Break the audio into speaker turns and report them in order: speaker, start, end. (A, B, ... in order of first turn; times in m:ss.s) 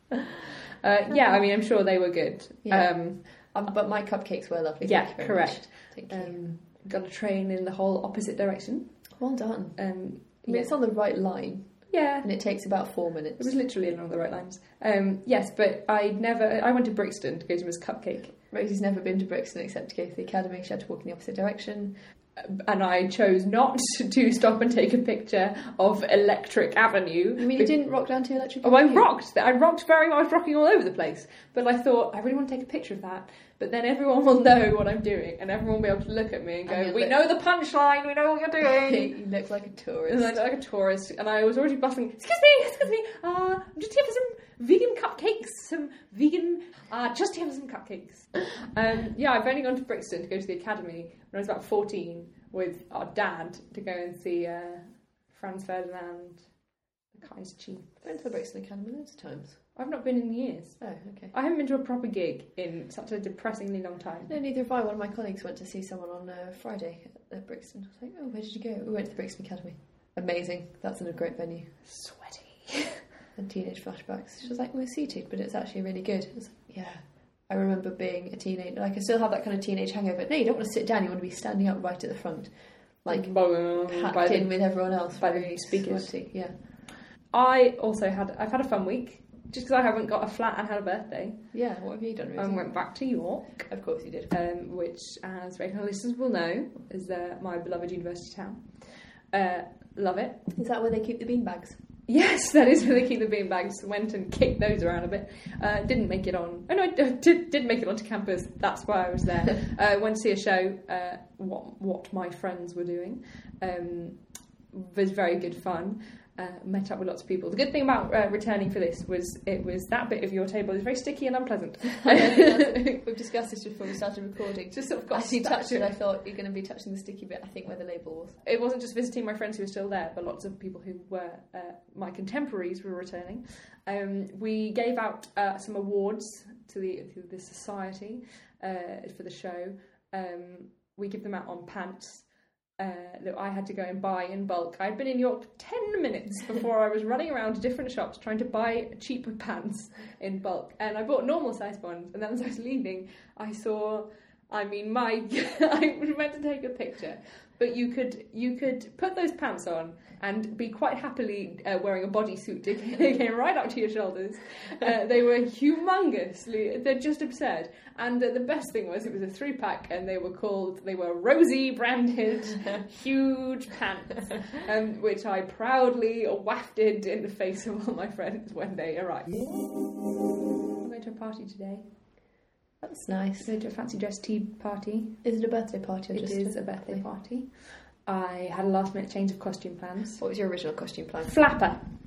0:00.4-0:03.2 A
0:02.7-0:06.4 B
0:04.8-0:09.0 A
0:09.2-0:09.8 B
0:09.8-0:10.7 A
0:10.4-0:13.6 B
0:11.9-0:12.3 A
0:13.4-0:18.3 A
0:18.4-0:22.0 B
0:22.4-0:27.7 A
0:27.4-0:29.1 B
0:28.6-0:39.1 A
0:36.7-0:37.2 B
0:38.8-0:40.4 B
0:40.1-0:56.5 A
0:57.1-0:57.9 A
0:58.0-0:59.6 B
0:59.8-1:00.8 A
1:00.8-1:01.3 B
1:01.3-1:04.3 A
1:04.3-1:11.7 B
1:11.9-1:13.0 A
1:13.4-1:26.5 B
1:23.1-1:26.1 A
1:27.3-1:31.5 A
1:31.5-1:32.7 B
1:32.4-1:33.7 A
1:33.7-1:34.3 B
1:34.3-1:40.4 A
1:40.5-1:41.8 B
1:42.1-1:54.2 A
1:54.7-2:03.0 A
2:02.0-2:08.4 B
2:04.7-2:05.9 A
2:08.4-2:22.3 A
2:22.8-2:59.5 A
3:00.8-3:01.8 A
3:02.8-3:03.5 B
3:03.4-3:05.2 A
3:05.2-3:07.0 B
3:06.1-3:10.2 A
3:10.2-3:11.3 B
3:11.2-3:11.8 A